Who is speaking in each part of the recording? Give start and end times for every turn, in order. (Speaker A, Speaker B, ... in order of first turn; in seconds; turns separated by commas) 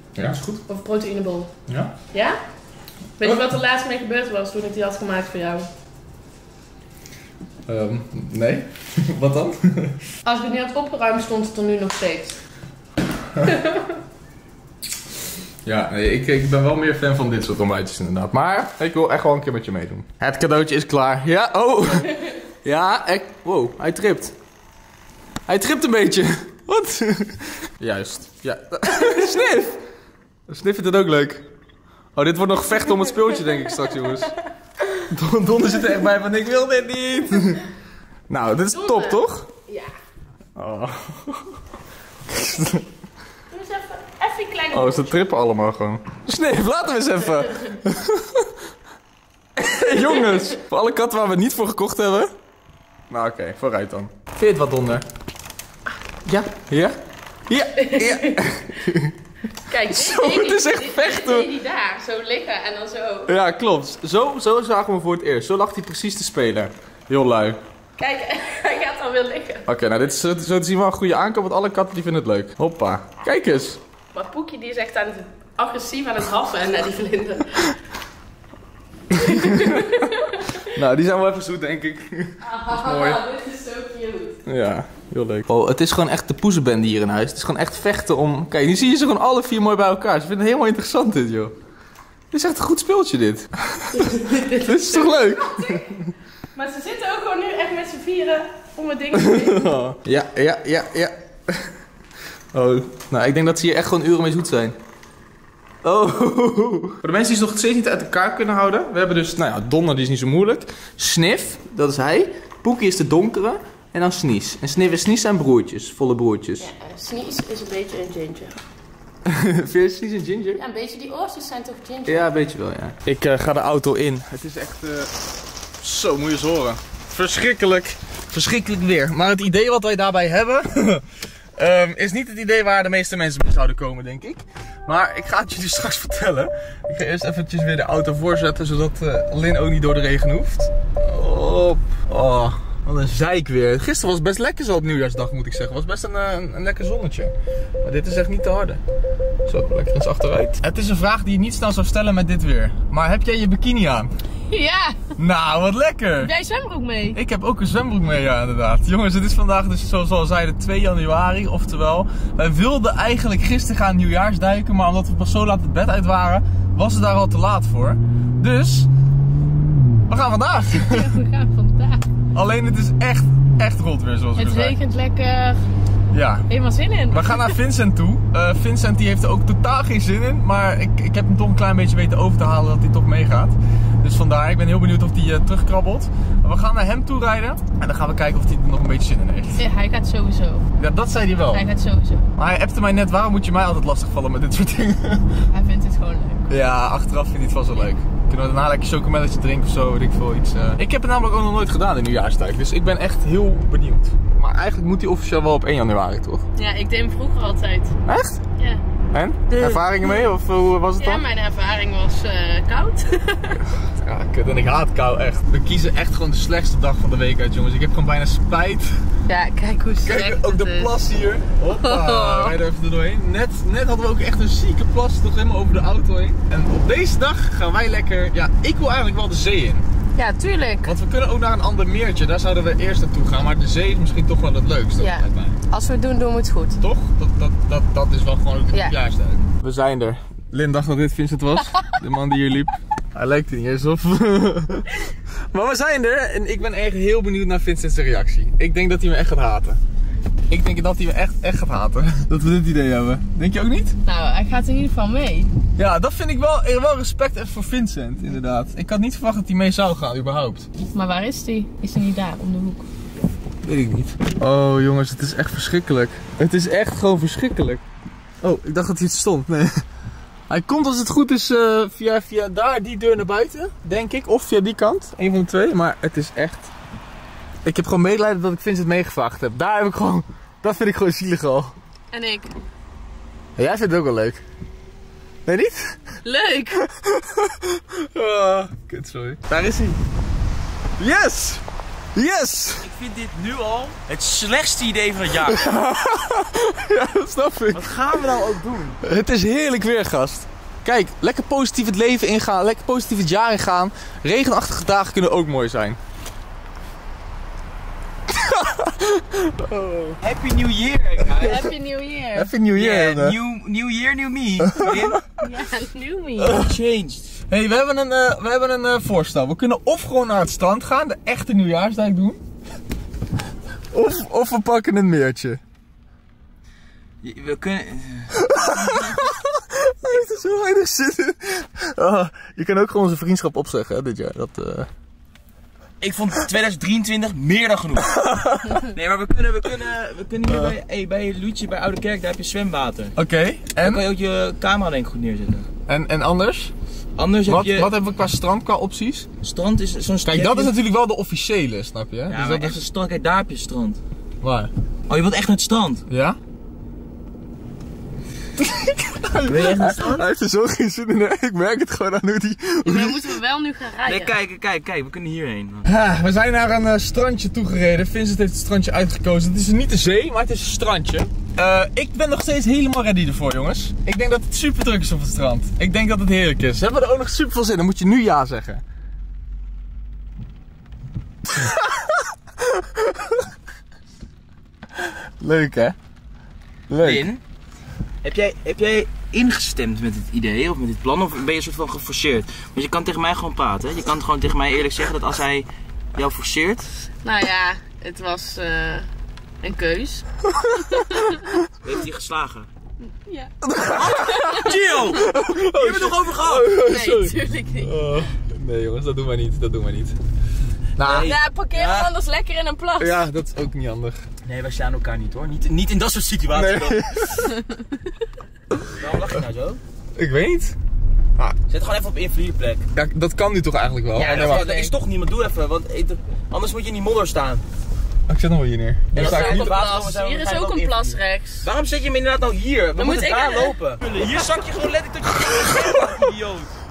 Speaker A: 0.2-0.7, Speaker B: 0.7-1.5, Speaker A: 1.7-1.9, Speaker B: 2.1-2.4, Speaker B: 3.2-5.7, Speaker A: 7.7-10.0, Speaker B: 10.2-12.4, Speaker B: 13.4-14.0, Speaker A: 15.7-24.3, Speaker A: 25.5-29.8, Speaker B: 28.9-29.5, Speaker A: 30.5-31.5, Speaker A: 32.1-34.4, Speaker B: 32.9-34.4, Speaker A: 35.0-37.7, Speaker A: 38.3-39.5, Speaker B: 38.7-39.9, Speaker A: 40.6-41.5, Speaker A: 42.3-42.9, Speaker B: 43.5-45.3, Speaker A: 44.7-48.5, Speaker B: 47.4-47.8, Speaker A: 49.6-52.3, Speaker B: 49.9-50.5, Speaker A: 53.1-55.0, Speaker A: 56.2-57.0, Speaker A: 57.5-59.1, Speaker B: 57.8-58.6, Speaker B: 59.7-63.3, Speaker A: 59.9-61.5, Speaker A: 63.3-67.6, Speaker B: 68.0-69.7, Speaker A: 69.7-73.8, Speaker B: 74.1-77.8, Speaker B: 79.1-80.6, Speaker A: 79.1-83.2, Speaker B: 82.4-84.4, Speaker A: 84.4-91.5, Speaker A: 92.3-96.1, Speaker B: 93.9-95.9, Speaker B: 96.5-99.7, Speaker A: 99.1-101.7, Speaker A: 102.5-104.8, Speaker A: 105.8-116.7, Speaker B: 116.6-118.6, Speaker A: 119.2-120.6, Speaker B: 120.6-122.4, Speaker A: 122.1-125.1, Speaker A: 125.8-131.1, Speaker A: 131.6-148.8, Speaker A: 149.4-154.1, Speaker B: 154.5-155.1, Speaker A: 155.2-156.3, Speaker B: 156.2-157.2, Speaker A: 157.1-168.9, Speaker A: 170.1-171.1, Speaker B: 170.7-172.0, Speaker A: 172.3-174.8, Speaker B: 174.4-175.7, Speaker A: 176.1-176.5, Speaker B: 176.5-177.6, Speaker A: 177.1-189.6, Speaker B: 189.6-190.7, Speaker A: 190.8-191.6, Speaker B: 191.4-192.3, Speaker A: 192.4-195.4, Speaker B: 195.5-196.6, Speaker A: 196.5-206.4, Speaker B: 206.6-208.0, Speaker A: 208.1-208.4, Speaker B: 208.6-208.8, Speaker A: 209.1-211.2, Speaker B: 209.5-210.3, Speaker B: 211.0-213.6, Speaker A: 213.8-219.0, Speaker B: 219.3-220.9, Speaker A: 220.1-229.9, Speaker B: 221.7-222.6, Speaker B: 230.2-230.9, Speaker A: 230.8-235.6, Speaker B: 235.0-236.8, Speaker A: 236.8-249.8, Speaker A: 250.5-253.9, Speaker B: 254.1-255.5, Speaker A: 255.8-260.7, Speaker B: 260.9-262.9, Speaker A: 263.6-267.8, Speaker A: 268.4-269.8, Speaker A: 270.5-276.7, Speaker A: 277.6-281.8, Speaker B: 282.1-282.6, Speaker A: 283.6-284.4, Speaker A: 285.4-286.0, Speaker B: 286.2-286.8, Speaker A: 286.9-290.0, Speaker A: 291.0-291.6, Speaker A: 292.1-292.9, Speaker C: 292.8-295.7, Speaker A: 295.4-298.2, Speaker C: 297.7-299.0, Speaker A: 299.0-306.0, Speaker A: 308.3-310.2, Speaker C: 310.2-311.7, Speaker B: 311.4-312.5, Speaker A: 312.4-313.4, Speaker C: 312.8-315.2, Speaker A: 314.6-315.2, Speaker B: 315.4-316.6, Speaker C: 316.4-317.4, Speaker A: 317.5-322.4, Speaker A: 323.9-325.6, Speaker C: 327.2-329.1, Speaker A: 328.4-334.9, Speaker C: 336.0-338.2, Speaker A: 338.1-338.9, Speaker C: 338.9-343.1, Speaker A: 343.1-344.0, Speaker C: 343.8-345.7, Speaker A: 345.9-346.7, Speaker C: 347.1-347.9, Speaker A: 347.5-349.3, Speaker C: 349.4-350.7, Speaker A: 350.2-352.8, Speaker C: 352.3-354.0, Speaker A: 354.4-354.7, Speaker C: 355.1-356.1, Speaker A: 356.1-356.4, Speaker A: 358.6-363.4, Speaker C: 359.4-360.2, Speaker B: 362.8-364.3, Speaker C: 364.0-365.9, Speaker A: 365.9-378.8, Speaker A: 381.5-383.4, Speaker A: 385.0-386.0, Speaker A: 386.9-387.2, Speaker C: 387.0-387.4, Speaker C: 388.2-396.9, Speaker B: 397.2-399.1, Speaker B: 399.6-401.4, Speaker A: 400.6-401.4, Speaker C: 401.8-402.7, Speaker B: 403.0-404.8, Speaker A: 403.6-410.2, Speaker C: 404.0-406.7, Speaker B: 406.7-408.0, Speaker A: 411.0-411.3, Speaker C: 411.0-412.1, Speaker B: 411.2-413.2, Speaker A: 413.0-414.3, Speaker C: 414.4-417.1, Speaker A: 416.5-417.6, Speaker B: 417.6-418.0, Speaker C: 418.9-419.8, Speaker A: 420.1-420.8, Speaker C: 421.7-422.9, Speaker A: 422.9-424.9, Speaker C: 424.1-427.6, Speaker A: 428.3-429.6, Speaker B: 429.1-431.7, Speaker C: 429.1-436.7, Speaker B: 433.0-433.8